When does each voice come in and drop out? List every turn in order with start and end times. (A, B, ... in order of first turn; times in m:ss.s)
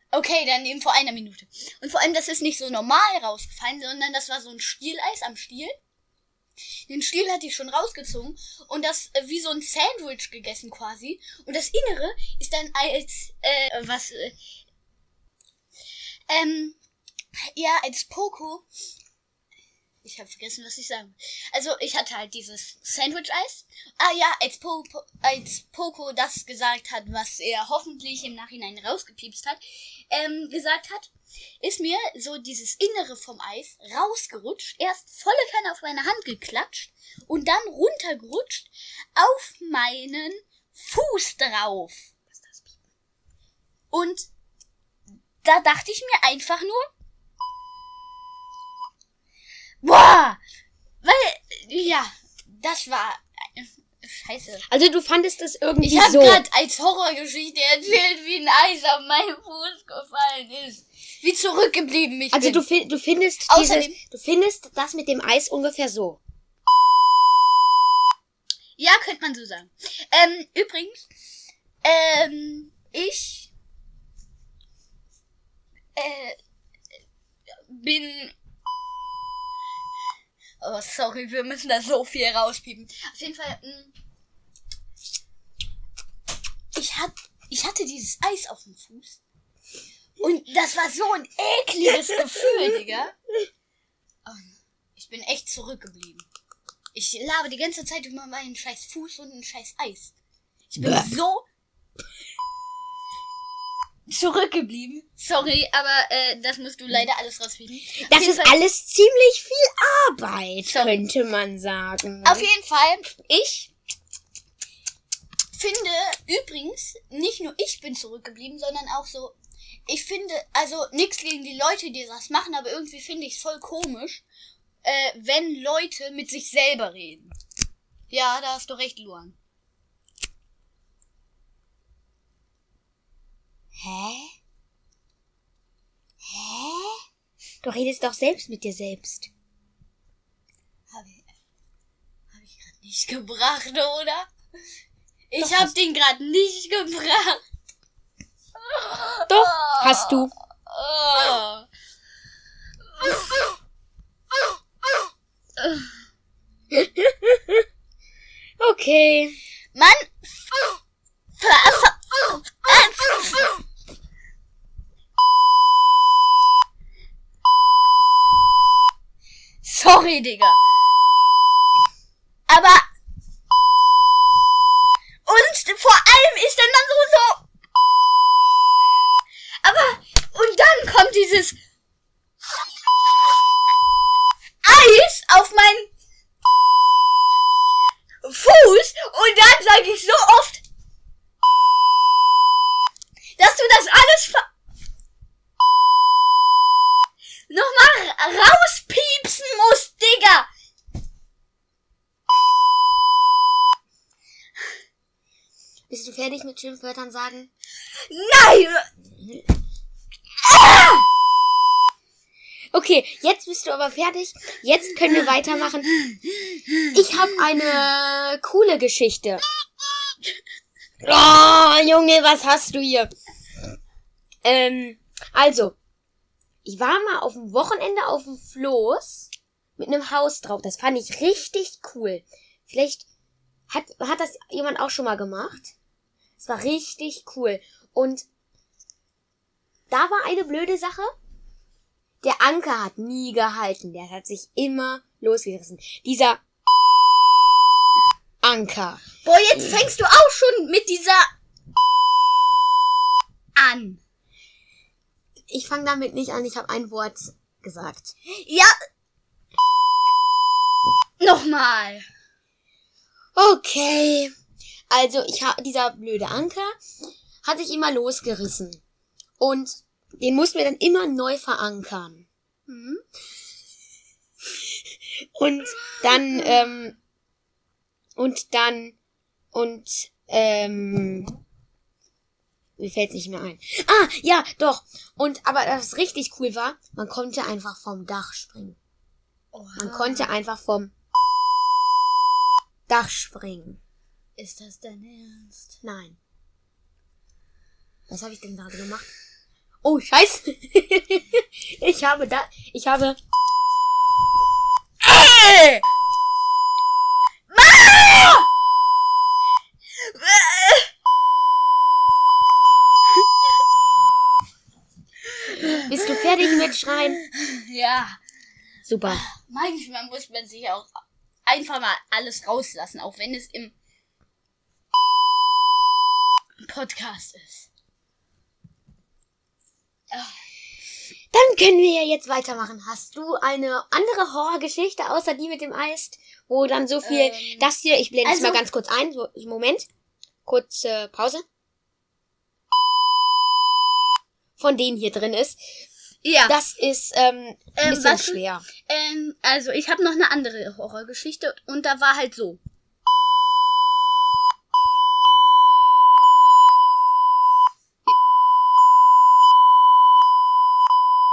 0:00.1-0:05.8 A
0:06.9-0:14.4 A
0:16.3-0:16.8 A
0:17.4-0:18.7 A
0:20.0-0:42.1 A
0:42.4-0:42.7 B
0:43.9-0:44.3 A
0:45.4-0:46.9 A
0:49.8-0:50.4 A
0:51.0-0:54.7 A
0:54.7-0:56.4 B
0:55.8-1:02.6 A
1:02.3-1:06.2 B
1:03.5-1:04.0 A
1:08.8-1:11.1 A
1:11.8-1:13.5 A
1:16.0-1:16.4 A
1:17.7-1:18.3 A
1:20.6-1:23.9 A
1:26.7-1:29.2 A
1:30.2-1:33.1 A
1:34.3-1:36.3 A
1:37.0-1:40.1 A
1:40.7-1:41.5 A
1:40.8-1:41.1 B
1:44.1-1:48.6 A
1:48.1-1:52.5 B
1:50.7-1:51.0 A
1:52.2-1:53.7 A
1:55.5-2:04.2 A
2:04.8-2:07.3 A
2:08.1-2:09.4 A
2:13.8-2:14.3 B
2:16.2-2:17.0 B
2:17.6-2:19.3 B
2:20.9-2:21.2 A
2:22.3-2:24.3 A
2:25.3-2:27.4 A
2:25.4-2:25.7 B
2:28.6-2:31.7 A
2:29.3-2:30.3 B
2:33.0-2:33.5 A
2:36.7-2:37.6 B
2:38.6-2:39.4 B
2:39.8-2:40.1 A
2:41.4-2:43.5 A
2:49.6-2:50.6 A
2:52.5-2:52.9 A
2:55.3-2:57.4 A
2:59.6-3:01.6 A
3:04.6-3:05.9 A
3:08.2-3:10.6 A
3:13.4-3:14.5 A
3:17.5-3:20.5 A
3:25.9-3:27.5 B
3:28.1-3:28.9 A
3:30.4-3:31.0 A
3:32.7-3:35.9 B
3:36.9-3:39.4 B
3:41.0-3:43.1 B
3:44.4-3:45.8 B
3:46.6-3:53.0 B
3:53.7-3:55.8 B
3:56.4-3:58.3 B
3:59.9-4:01.1 B
4:02.2-4:06.4 B
4:08.4-4:09.0 B
4:09.2-4:11.3 A
4:13.6-4:14.0 A
4:15.5-4:18.1 B
4:18.3-4:18.7 A
4:21.2-4:22.1 A
4:23.4-4:24.3 B
4:24.9-4:26.8 B
4:27.4-4:28.8 B
4:29.4-4:32.2 B
4:32.7-4:33.0 A
4:34.5-4:37.0 B
4:35.9-4:36.4 A
4:38.2-4:39.0 B
4:39.5-4:41.4 B
4:42.8-4:48.8 B
4:49.5-4:50.3 A
4:49.8-4:50.9 B
4:52.9-4:53.8 B
4:54.4-4:55.8 A
4:55.8-4:56.2 B
4:58.1-4:59.1 B
4:59.8-5:03.2 B
5:05.0-5:05.8 A
5:07.5-5:08.5 A
5:10.0-5:10.9 A
5:15.4-5:16.7 A
5:15.8-5:17.2 B
5:17.3-5:18.2 A
5:18.9-5:19.2 B
5:19.1-5:20.9 A
5:21.5-5:23.7 A
5:26.6-5:27.7 A
5:30.1-5:30.4 A
5:31.3-5:39.9 B
5:37.0-5:37.7 A
5:38.2-5:38.6 A
5:40.5-5:41.4 B
5:44.6-5:45.6 B
5:46.2-5:46.6 A
5:46.5-5:48.7 B
5:47.8-5:52.6 A